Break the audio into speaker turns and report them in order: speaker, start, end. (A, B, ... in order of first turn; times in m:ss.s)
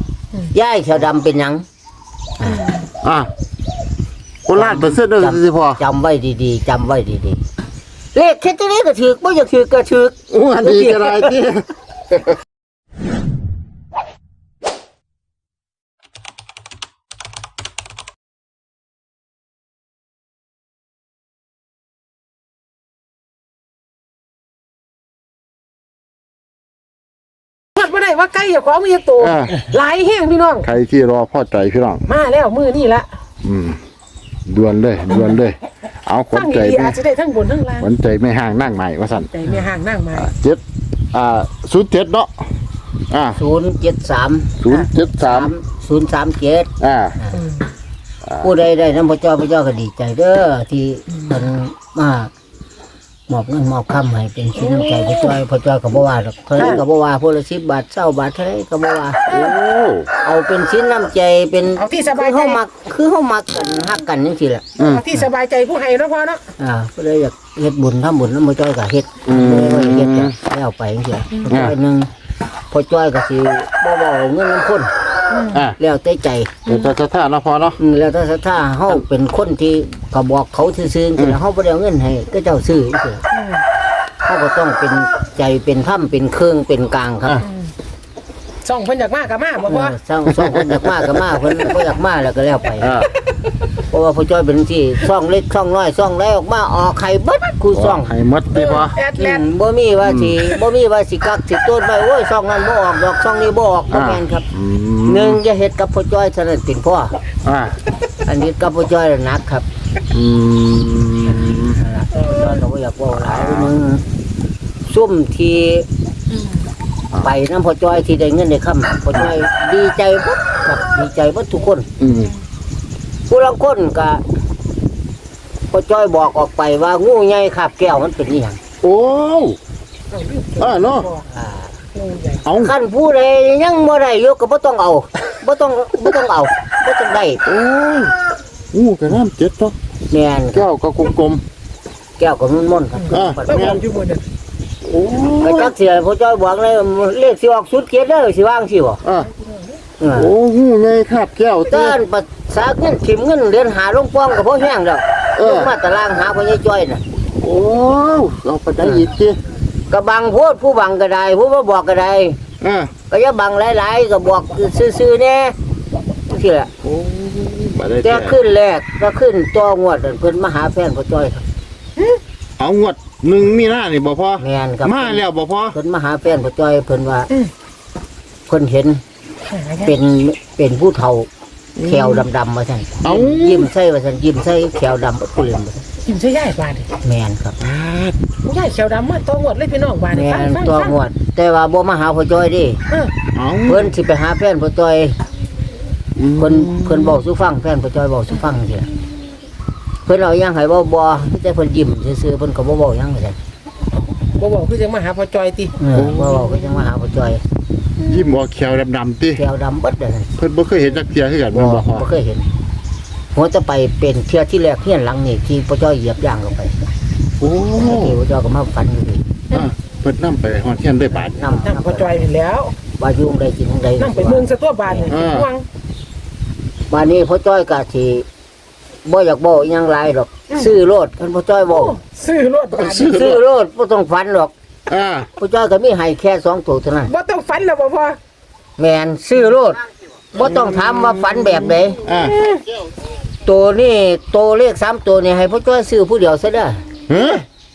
0:00.5-0:01.6 A
0:02.4-0:02.7 A
0:03.0-0:03.3 B
0:04.5-0:05.8 B
0:04.5-0:07.4 A
0:08.1-0:11.4 A
0:10.3-0:12.2 B
0:27.8-0:30.7 C
0:29.2-0:29.6 B
0:30.6-0:32.0 B
0:32.1-0:33.1 C
0:33.4-0:33.8 B
0:34.5-0:37.0 B
0:35.1-0:35.4 C
0:36.3-0:37.9 C
0:37.8-0:39.3 B
0:39.3-0:40.4 C
0:40.2-0:40.6 B
0:41.1-0:42.5 B
0:43.1-0:43.4 B
0:43.4-0:44.6 A
0:44.6-0:45.5 B
0:45.2-0:47.4 A
0:46.8-0:47.2 B
0:47.3-0:47.6 C
0:48.4-0:52.3 A
0:53.3-0:59.2 A
0:54.6-0:55.4 C
0:59.3-1:00.1 B
1:00.2-1:05.3 A
1:01.8-1:02.6 C
1:04.8-1:05.0 B
1:04.8-1:06.4 C
1:06.6-1:12.1 A
1:09.2-1:10.4 B
1:11.5-1:11.8 B
1:12.7-1:14.9 A
1:15.3-1:15.7 C
1:15.8-1:16.5 A
1:16.7-1:17.8 B
1:16.7-1:16.9 C
1:17.8-1:23.2 A
1:23.3-1:23.6 C
1:24.2-1:27.4 A
1:27.4-1:27.7 C
1:28.6-1:30.0 C
1:29.7-1:33.1 A
1:30.4-1:31.4 B
1:32.8-1:33.1 B
1:33.9-1:38.1 A
1:37.7-1:39.0 B
1:38.5-1:39.5 C
1:39.2-1:44.5 A
1:40.0-1:40.4 B
1:43.9-1:45.4 B
1:45.0-1:47.1 A
1:47.4-1:47.8 B
1:48.2-1:49.7 A
1:50.1-1:51.8 B
1:51.6-1:54.0 A
1:53.2-1:53.7 B
1:54.9-1:55.9 A
1:57.2-2:01.9 A
2:02.0-2:02.3 B
2:03.3-2:04.2 A
2:05.7-2:08.6 A
2:08.8-2:09.6 B
2:10.1-2:11.2 C
2:10.6-2:11.1 B
2:11.3-2:11.8 A
2:11.9-2:12.5 C
2:12.4-2:12.8 B
2:12.6-2:17.4 A
2:17.4-2:18.2 B
2:18.7-2:19.8 B
2:20.1-2:20.7 A
2:20.5-2:21.4 B
2:22.2-2:23.8 A
2:23.0-2:24.2 C
2:23.1-2:23.8 B
2:24.8-2:25.7 B
2:25.4-2:29.0 A
2:29.0-2:29.3 B
2:30.0-2:30.3 A
2:30.2-2:32.0 B
2:31.7-2:37.0 A
2:35.4-2:35.7 B
2:37.4-2:39.4 B
2:38.8-2:39.1 A
2:39.9-2:42.4 A
2:42.6-2:42.9 B
2:43.1-2:45.6 A
2:46.3-2:46.7 A
2:46.8-2:48.4 B
2:48.0-2:51.4 A
2:52.6-2:55.8 B
2:54.4-2:57.3 A
2:58.5-2:59.0 A
2:59.5-2:59.9 C
2:59.8-3:01.3 A
3:01.8-3:02.3 B
3:01.8-3:05.9 A
3:03.0-3:03.7 B
3:06.0-3:06.9 C
3:07.0-3:07.7 A
3:07.6-3:08.2 B
3:08.4-3:11.0 C
3:10.1-3:12.8 A
3:13.3-3:14.0 B
3:13.7-3:15.2 A
3:16.2-3:17.2 B
3:16.4-3:18.9 A
3:20.0-3:23.4 A
3:24.4-3:25.8 C
3:25.8-3:27.4 A
3:25.9-3:26.9 B
3:28.0-3:29.4 B
3:29.3-3:30.3 A
3:30.4-3:32.1 B
3:31.5-3:32.5 A
3:33.4-3:36.8 A
3:37.4-3:38.2 B
3:37.8-3:39.2 A
3:39.5-3:41.4 B
3:41.2-3:42.2 A
3:41.6-3:42.8 C
3:43.0-3:45.1 A
3:44.0-3:45.7 C
3:45.1-3:45.5 B
3:46.9-3:48.3 A
3:49.0-3:52.0 A
3:51.7-3:53.2 C
3:52.7-3:53.4 B
3:53.0-3:54.5 A
3:54.9-3:55.3 B
3:55.4-3:57.1 A
3:57.1-3:58.2 C
3:58.8-3:59.8 A
4:00.3-4:02.0 A
4:00.4-4:02.4 B
4:02.2-4:02.6 C
4:03.4-4:06.8 A
4:07.1-4:07.4 B
4:07.1-4:07.4 C